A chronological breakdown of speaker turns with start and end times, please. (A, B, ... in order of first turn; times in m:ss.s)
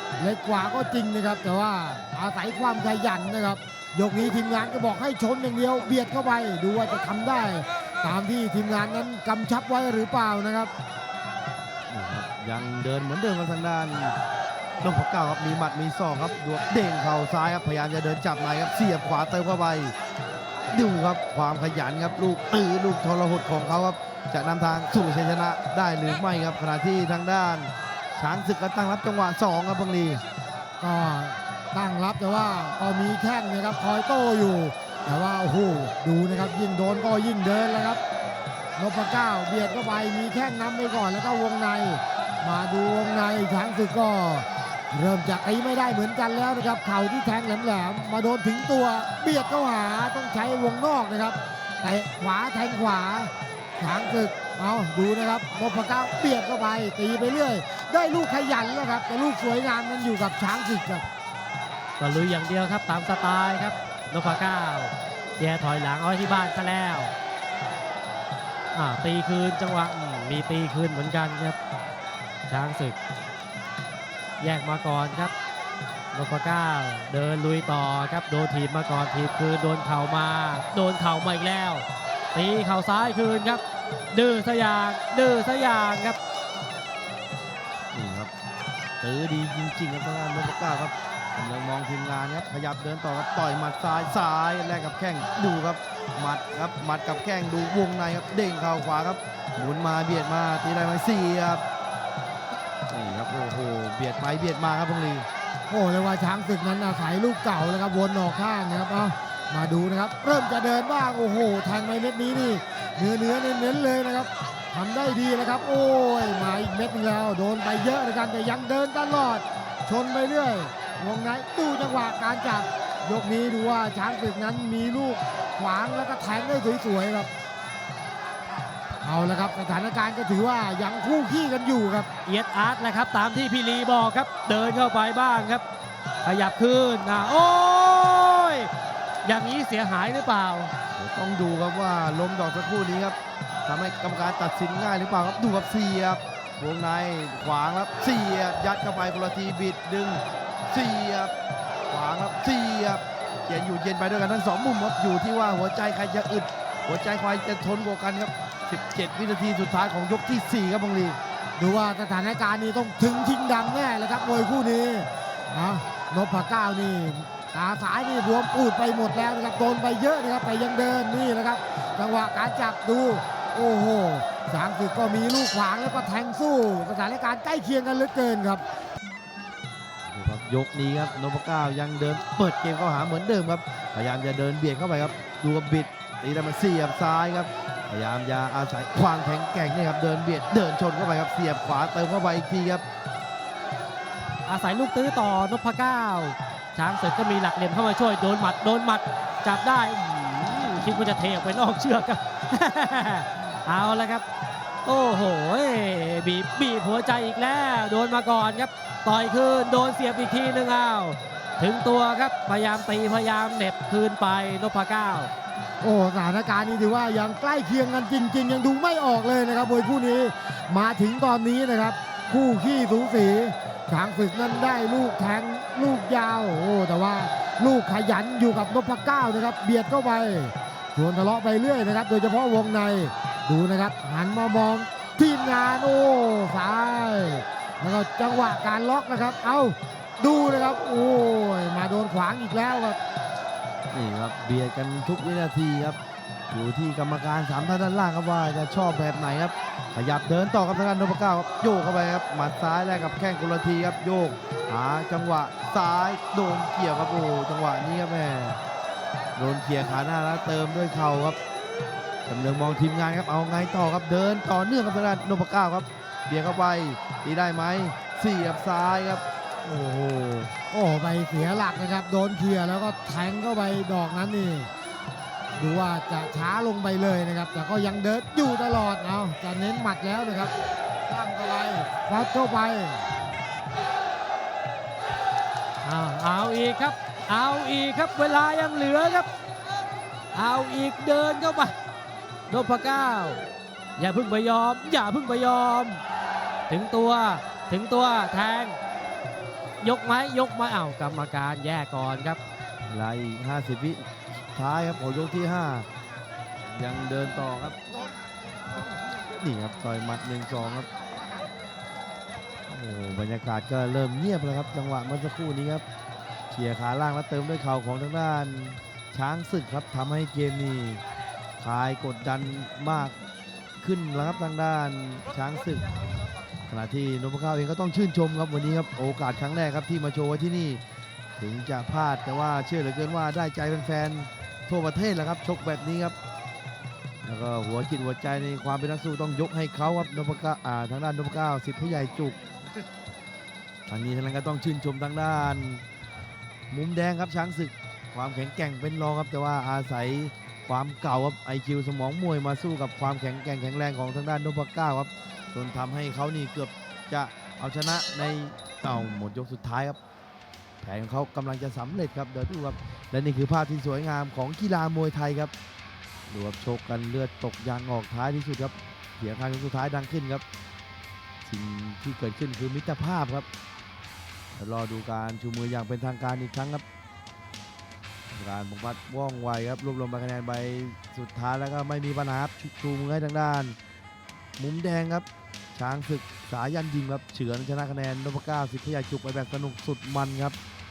0:00.2-0:10.7 A
0:11.9-0:14.2 B
0:14.8-0:19.9 B
0:20.7-0:30.2 B
0:30.8-0:38.0 A
0:38.8-1:01.0 A
1:02.0-1:07.1 C
1:08.7-1:11.6 C
1:12.5-1:13.0 C
1:14.4-1:15.3 C
1:16.1-1:26.2 C
1:27.9-1:28.3 B
1:29.0-1:41.6 B
1:42.9-1:45.3 B
1:45.7-2:07.3 A
2:09.0-2:12.1 A
2:12.2-2:15.6 C
2:16.2-2:18.7 C
2:19.2-2:20.7 C
2:20.9-2:31.3 B
2:31.9-2:41.2 B
2:41.6-2:58.6 A
3:00.1-3:12.8 B
3:14.4-3:24.2 C
3:24.8-3:35.3 C
3:35.8-4:03.0 A
4:03.9-4:06.0 B
4:06.5-4:18.6 B
4:19.4-4:21.4 B
4:22.2-4:29.2 B
4:29.6-4:34.7 A
4:35.6-4:40.5 A
4:41.1-4:43.0 A
4:45.8-4:49.3 C
4:50.3-4:51.7 C
4:52.5-4:53.4 C
4:54.0-4:56.0 C
4:56.7-4:58.8 C
4:59.8-5:02.4 C
5:02.9-5:05.9 B
5:06.6-5:07.8 B
5:09.4-5:10.9 B
5:12.7-5:15.8 B
5:16.5-5:21.0 B
5:21.6-5:23.1 B
5:23.8-5:25.8 B
5:26.7-5:30.8 B
5:31.4-5:36.2 B
5:37.2-5:42.4 B
5:43.9-5:45.8 B
5:46.7-6:00.0 B
6:00.8-6:05.5 B
6:06.3-6:10.4 B
6:11.4-6:13.4 B
6:14.6-6:16.8 B
6:18.3-6:23.8 B
6:24.6-6:30.6 B